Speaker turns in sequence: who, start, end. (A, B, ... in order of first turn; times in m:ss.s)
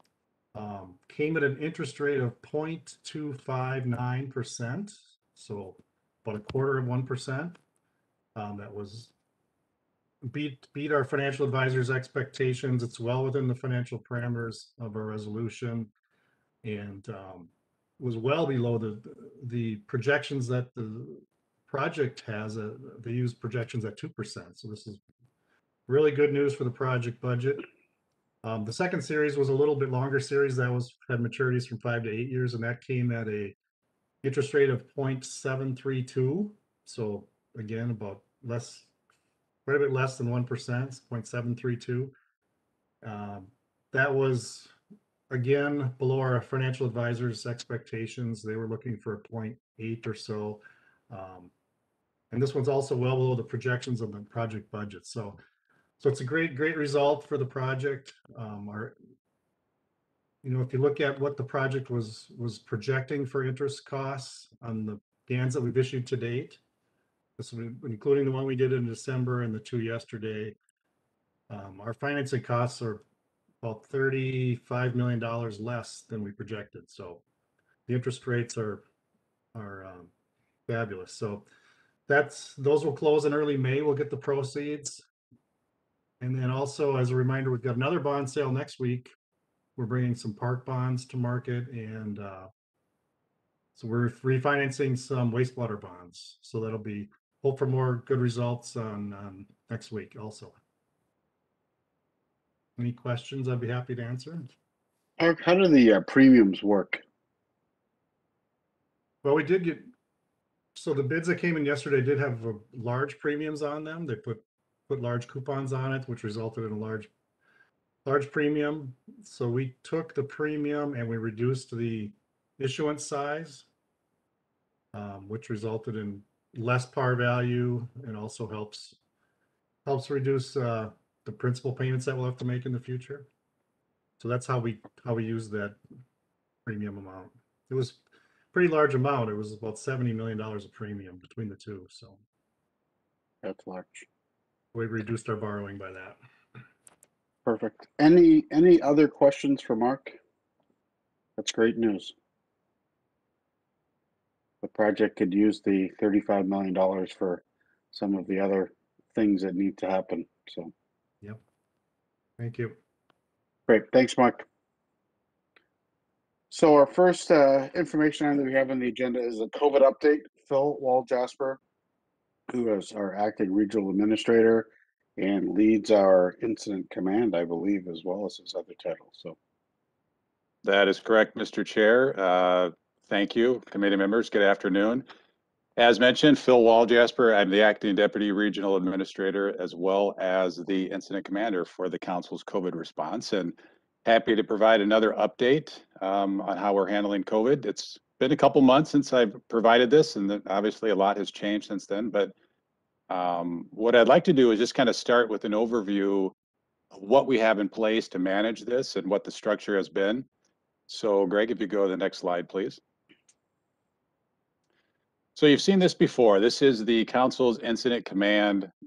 0:00.5-0:07.6 A
0:08.4-0:09.1 A
0:10.2-0:15.9 A
0:16.6-0:25.0 A
0:25.9-0:27.6 A
0:28.4-0:33.6 A
0:34.2-0:38.9 A
0:39.6-0:42.1 A
0:43.0-0:44.7 A
0:45.3-0:51.5 A
0:52.3-0:55.4 A
0:56.0-0:59.0 A
1:00.4-1:06.6 A
1:07.4-1:10.6 A
1:11.5-1:13.0 A
1:13.6-1:17.2 A
1:17.9-1:18.8 A
1:19.6-1:20.1 A
1:20.7-1:21.4 A
1:22.1-1:25.0 A
1:26.2-1:29.1 A
1:29.8-1:32.5 A
1:33.8-1:40.6 A
1:42.8-1:44.5 A
1:45.2-1:47.0 B
1:49.2-1:49.9 A
1:50.7-1:57.1 A
1:58.0-2:03.6 A
2:04.9-2:09.0 A
2:09.8-2:13.3 A
2:14.2-2:15.8 A
2:16.6-2:18.0 A
2:18.5-2:22.2 A
2:23.4-2:24.1 B
2:24.7-2:26.2 A
2:27.4-2:30.2 B
2:31.4-2:32.1 B
2:34.6-2:40.7 B
2:42.4-2:42.8 A
2:43.7-2:44.4 B
2:46.5-2:51.6 B
2:52.5-2:59.4 B
3:00.6-3:05.1 C
3:05.8-3:22.3 C
3:23.1-3:26.3 C
3:26.9-3:30.3 C
3:30.9-3:32.8 C
3:35.4-3:38.7 C